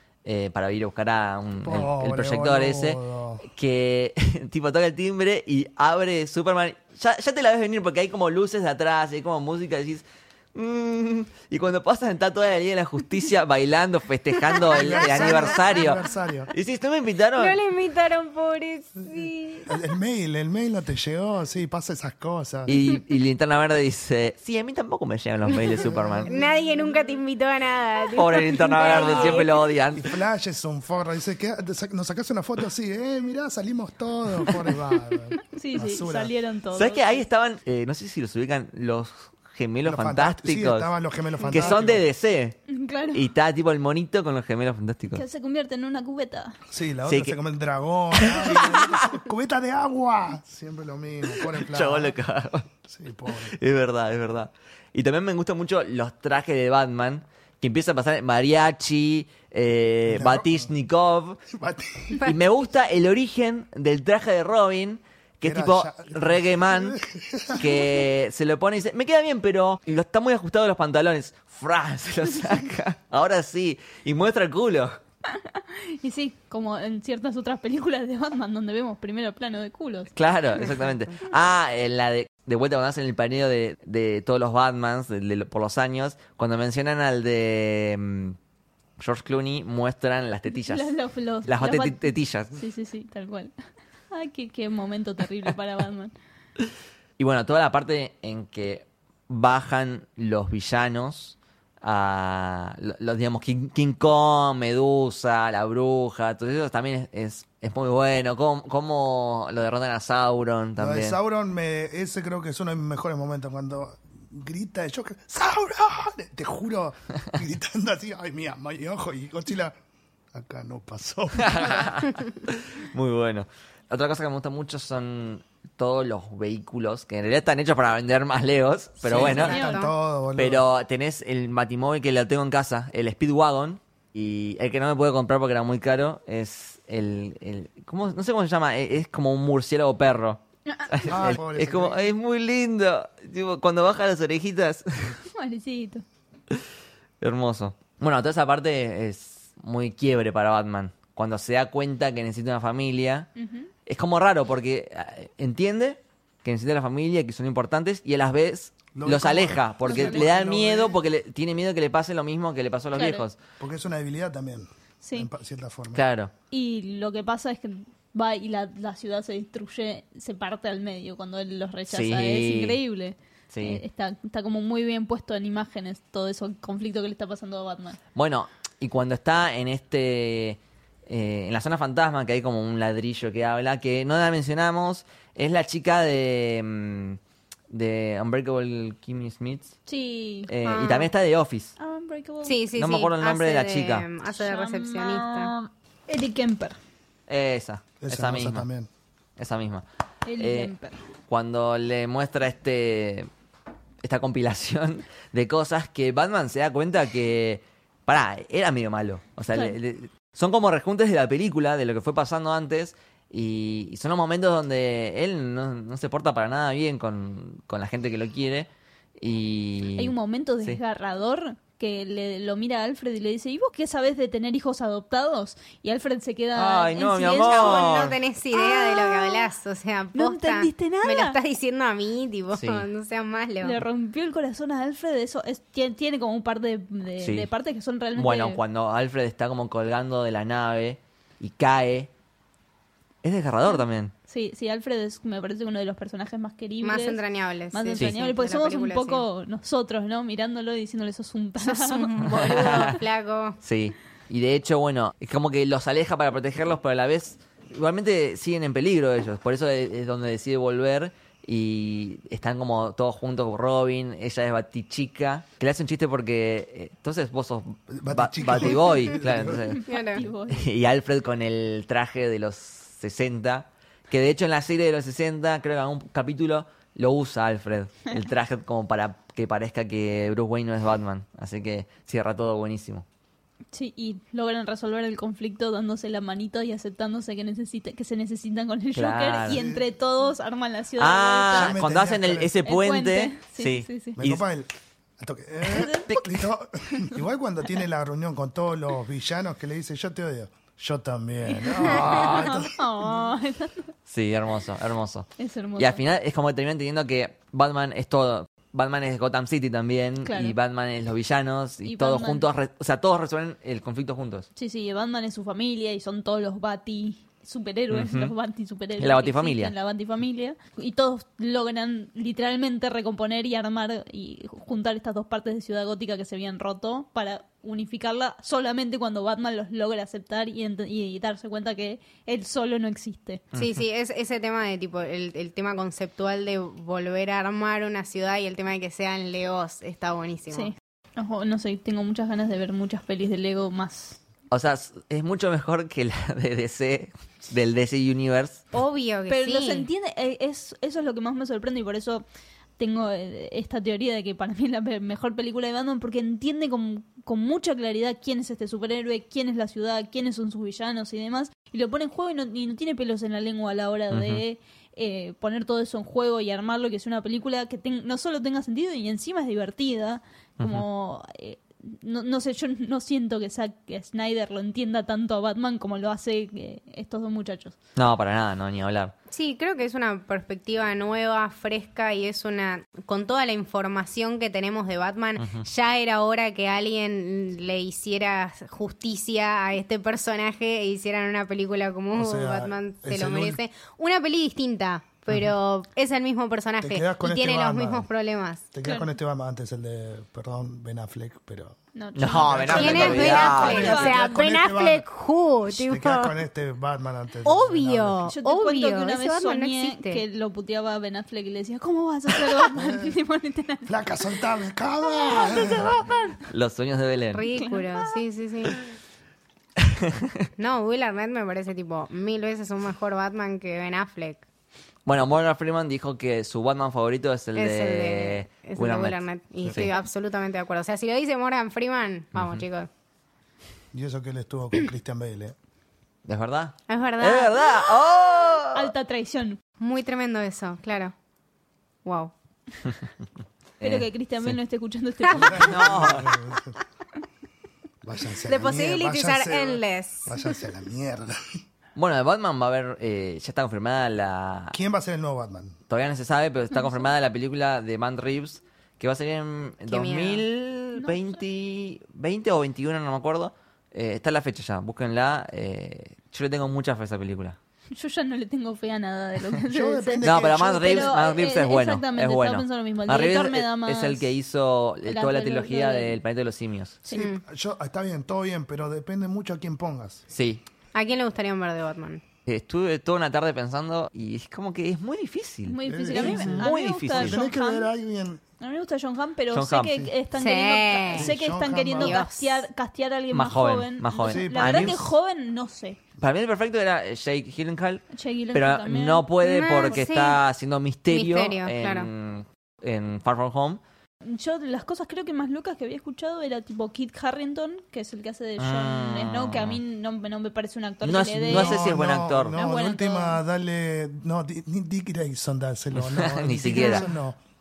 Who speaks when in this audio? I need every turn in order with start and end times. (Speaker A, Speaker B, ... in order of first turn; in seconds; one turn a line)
Speaker A: 0.2-16.0
Speaker B: 1.6-3.4
Speaker B: 14.7-16.5
Speaker C: 14.8-15.4
Speaker A: 16.5-17.6
Speaker C: 17.4-19.8
Speaker B: 19.7-22.8
Speaker A: 22.7-26.3
Speaker C: 22.7-23.0
Speaker B: 25.8-26.3
Speaker C: 25.8-29.6
Speaker A: 28.1-30.1
Speaker D: 28.8-29.5
Speaker B: 29.9-36.3
Speaker D: 35.5-37.2
Speaker A: 36.8-40.9
Speaker B: 39.8-42.0
Speaker C: 41.5-41.8
Speaker A: 41.5-42.6
Speaker D: 42.7-43.3
Speaker A: 43.1-45.2
Speaker D: 45.1-46.6
Speaker B: 46.7-52.2
Speaker A: 47.1-47.4
Speaker A: 48.1-49.1
Speaker A: 51.4-52.7
Speaker B: 52.9-53.5
Speaker A: 53.5-61.4
Speaker B: 60.1-60.7
Speaker B: 61.5-62.2
Speaker C: 62.2-62.4
Speaker A: 62.2-67.0
Speaker B: 65.4-68.0
Speaker A: 67.5-75.0
Speaker D: 75.3-80.1
Speaker A: 80.2-88.4
Speaker A: 89.0-90.9
Speaker D: 90.6-93.5
Speaker A: 91.5-92.5
Speaker D: 94.1-96.1
Speaker A: 97.2-111.2
Speaker B: 110.8-119.7
Speaker B: 120.3-121.9
Speaker A: 121.4-129.7
Speaker B: 129.0-130.7
Speaker C: 129.1-129.9
Speaker A: 130.4-145.2
Speaker B: 141.0-142.1
Speaker D: 145.3-146.0
Speaker A: 147.2-153.3
Speaker D: 153.4-153.7
Speaker A: 153.9-163.4
Speaker B: 158.9-161.0
Speaker D: 159.8-160.2
Speaker D: 162.9-163.2
Speaker B: 163.6-166.1
Speaker D: 165.0-165.3
Speaker A: 165.9-166.3
Speaker D: 166.5-178.0
Speaker A: 171.9-172.8
Speaker A: 173.5-173.8
Speaker A: 178.2-187.2
Speaker A: 187.7-189.8
Speaker D: 189.9-190.5
Speaker A: 190.5-191.7
Speaker C: 190.6-191.1
Speaker D: 191.8-192.6
Speaker C: 192.4-195.5
Speaker A: 192.8-194.1
Speaker D: 194.4-196.8
Speaker A: 197.3-198.7
Speaker B: 198.0-198.9
Speaker A: 199.4-199.8
Speaker D: 200.2-201.0
Speaker A: 200.4-200.7
Speaker A: 201.3-203.3
Speaker A: 204.0-218.7
Speaker A: 219.2-220.8
Speaker D: 220.0-229.5
Speaker A: 226.6-228.2
Speaker C: 227.4-233.8
Speaker D: 230.1-231.4
Speaker A: 232.5-232.9
Speaker D: 233.6-238.6
Speaker A: 237.2-237.5
Speaker A: 238.2-242.1
Speaker A: 243.2-244.1
Speaker D: 243.7-247.2
Speaker C: 246.8-249.2
Speaker D: 247.7-253.0
Speaker C: 251.6-253.6
Speaker A: 252.2-253.0
Speaker A: 253.6-283.1
Speaker B: 267.9-269.6
Speaker D: 269.7-270.6
Speaker C: 269.9-270.3
Speaker D: 283.7-291.8
Speaker A: 288.9-289.6
Speaker B: 289.5-289.9
Speaker A: 291.0-294.4
Speaker B: 291.5-292.6
Speaker D: 292.6-294.2
Speaker B: 294.2-302.8
Speaker D: 295.7-296.2
Speaker A: 295.9-296.4
Speaker D: 296.9-297.1
Speaker D: 301.6-303.9
Speaker A: 301.8-302.5
Speaker A: 304.1-314.5
Speaker D: 305.4-306.0
Speaker D: 310.2-310.6
Speaker D: 311.8-312.5
Speaker D: 314.6-333.4
Speaker A: 317.9-318.3
Speaker A: 319.0-319.7
Speaker C: 333.5-340.7
Speaker D: 340.5-344.2
Speaker A: 344.5-348.6
Speaker C: 348.7-349.9
Speaker D: 349.3-352.2
Speaker D: 352.8-377.8
Speaker A: 364.1-364.4
Speaker A: 370.6-370.9
Speaker A: 378.0-379.1
Speaker C: 379.3-398.6
Speaker A: 385.4-385.6
Speaker B: 392.1-393.6
Speaker B: 396.8-398.1
Speaker B: 398.7-401.8
Speaker D: 398.8-399.1
Speaker D: 401.9-404.3
Speaker A: 402.2-404.1
Speaker B: 402.3-405.1
Speaker C: 402.7-406.3
Speaker B: 405.7-408.2
Speaker C: 407.4-410.2
Speaker D: 408.3-413.9
Speaker B: 412.7-413.1
Speaker B: 413.9-416.2
Speaker C: 415.3-416.0
Speaker A: 416.5-417.5
Speaker C: 417.3-418.8
Speaker D: 417.5-418.0
Speaker A: 419.8-420.5
Speaker C: 420.6-424.4
Speaker A: 425.1-430.0
Speaker C: 427.6-432.9
Speaker A: 432.4-432.6
Speaker B: 433.9-435.6
Speaker A: 436.2-438.9
Speaker C: 436.9-438.0
Speaker D: 438.7-439.6
Speaker C: 439.8-441.1
Speaker C: 442.1-442.3
Speaker A: 443.8-444.6
Speaker D: 443.8-446.2
Speaker C: 445.3-445.6
Speaker B: 445.4-446.8
Speaker A: 445.6-446.3
Speaker B: 448.0-451.4
Speaker C: 448.5-450.6
Speaker A: 452.0-454.8
Speaker B: 454.7-455.8
Speaker A: 455.9-467.6
Speaker C: 459.9-460.4
Speaker D: 460.9-461.4
Speaker D: 467.9-474.3
Speaker B: 469.7-471.2
Speaker A: 470.2-477.0
Speaker D: 475.1-476.2
Speaker D: 477.1-477.3
Speaker C: 477.1-477.4
Speaker B: 477.4-480.2
Speaker A: 480.3-480.6
Speaker C: 480.9-482.2
Speaker A: 482.5-487.4
Speaker D: 485.7-487.9
Speaker B: 485.9-488.4
Speaker D: 488.6-496.0
Speaker A: 489.5-490.1
Speaker C: 490.4-491.3
Speaker B: 491.1-492.2
Speaker C: 492.0-492.6
Speaker A: 493.3-495.0
Speaker B: 494.2-495.0
Speaker A: 496.2-503.8
Speaker D: 498.1-499.3
Speaker C: 499.4-500.4
Speaker C: 501.1-502.1
Speaker D: 504.2-511.9
Speaker A: 508.6-509.8
Speaker A: 511.0-512.5
Speaker B: 511.5-517.4
Speaker D: 512.5-513.4
Speaker A: 515.9-517.1
Speaker D: 516.8-517.0